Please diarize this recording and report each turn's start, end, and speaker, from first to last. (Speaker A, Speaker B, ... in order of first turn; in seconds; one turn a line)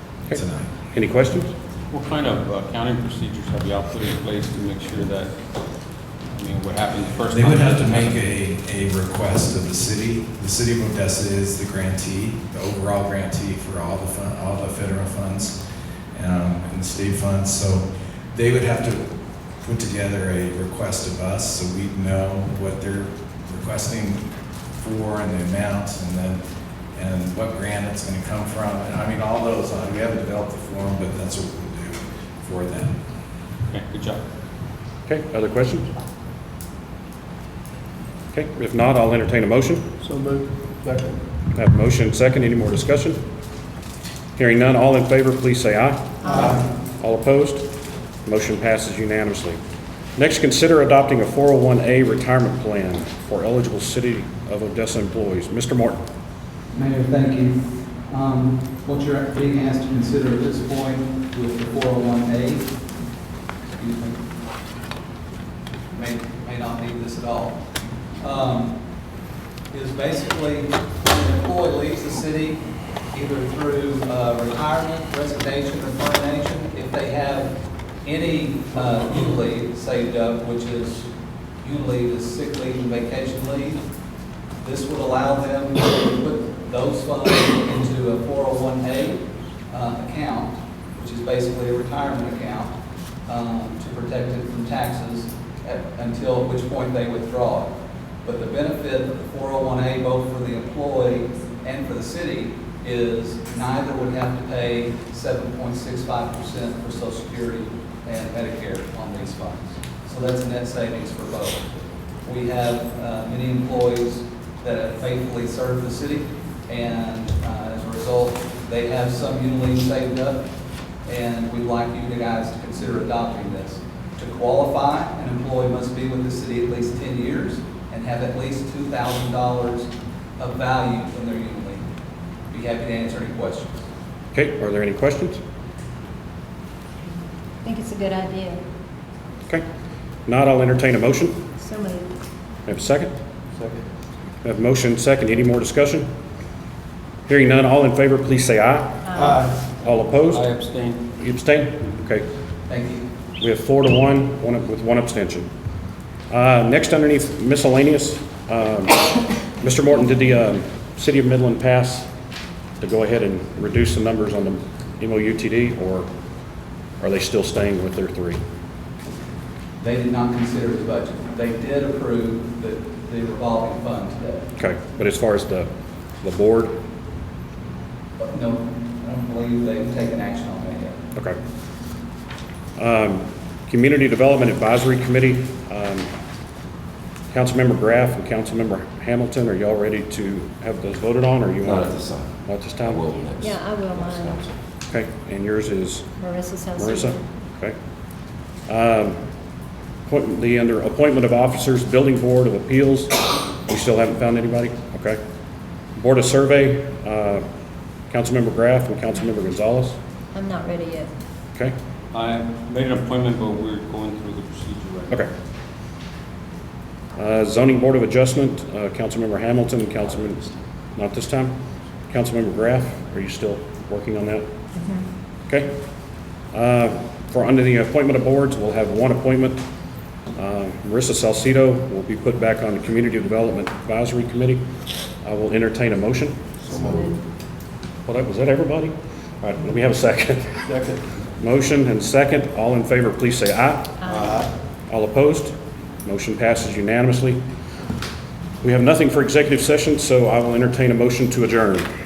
Speaker A: 0.3-0.7
Speaker B: 0.9-1.5
Speaker C: 1.9-5.3
Speaker C: 6.3-8.2
Speaker A: 7.3-15.6
Speaker A: 16.1-26.4
Speaker A: 26.9-33.0
Speaker C: 33.7-34.2
Speaker B: 35.1-35.9
Speaker B: 38.3-39.8
Speaker D: 40.0-41.2
Speaker B: 41.5-43.2
Speaker B: 44.4-47.6
Speaker D: 46.4-46.6
Speaker B: 48.2-49.6
Speaker B: 50.2-56.0
Speaker E: 56.7-62.7
Speaker E: 63.8-64.2
Speaker E: 65.9-67.6
Speaker E: 68.2-68.8
Speaker E: 69.7-77.5
Speaker E: 78.0-81.1
Speaker E: 81.6-83.8
Speaker E: 84.6-92.7
Speaker E: 93.3-97.7
Speaker E: 98.2-111.6
Speaker E: 112.2-120.4
Speaker E: 121.0-131.8
Speaker E: 132.5-133.7
Speaker B: 134.3-135.4
Speaker F: 137.6-138.6
Speaker B: 140.3-141.4
Speaker F: 141.6-142.1
Speaker B: 142.7-143.1
Speaker D: 143.6-143.8
Speaker B: 144.4-146.1
Speaker B: 147.3-150.4
Speaker F: 149.0-149.4
Speaker C: 150.2-151.0
Speaker B: 151.1-152.2
Speaker E: 152.7-153.0
Speaker B: 153.4-155.5
Speaker B: 156.3-159.0
Speaker B: 159.6-162.1
Speaker B: 162.8-166.1
Speaker B: 167.0-168.4
Speaker E: 169.8-174.4
Speaker B: 174.6-175.7
Speaker B: 176.2-176.7
Speaker E: 178.2-181.0
Speaker B: 182.8-186.1
Speaker B: 187.3-193.1
Speaker G: 191.6-194.6
Speaker F: 193.4-194.4
Speaker B: 194.9-196.1
Speaker F: 196.2-197.2
Speaker B: 196.8-197.8
Speaker B: 198.7-199.2
Speaker B: 200.1-205.2
Speaker B: 206.0-207.4
Speaker B: 208.1-210.0
Speaker F: 210.3-211.1
Speaker C: 212.1-215.2
Speaker B: 217.2-221.5
Speaker B: 222.1-224.4
Speaker F: 224.8-225.1
Speaker B: 226.5-229.6
Speaker B: 230.3-234.6
Speaker B: 235.2-236.5
Speaker D: 236.7-237.0
Speaker B: 238.1-240.7
Speaker D: 240.7-241.0
Speaker B: 241.4-244.0
Speaker F: 244.0-244.3
Speaker D: 244.1-244.5
Speaker B: 244.9-245.5
Speaker B: 246.0-247.4
Speaker B: 248.6-251.9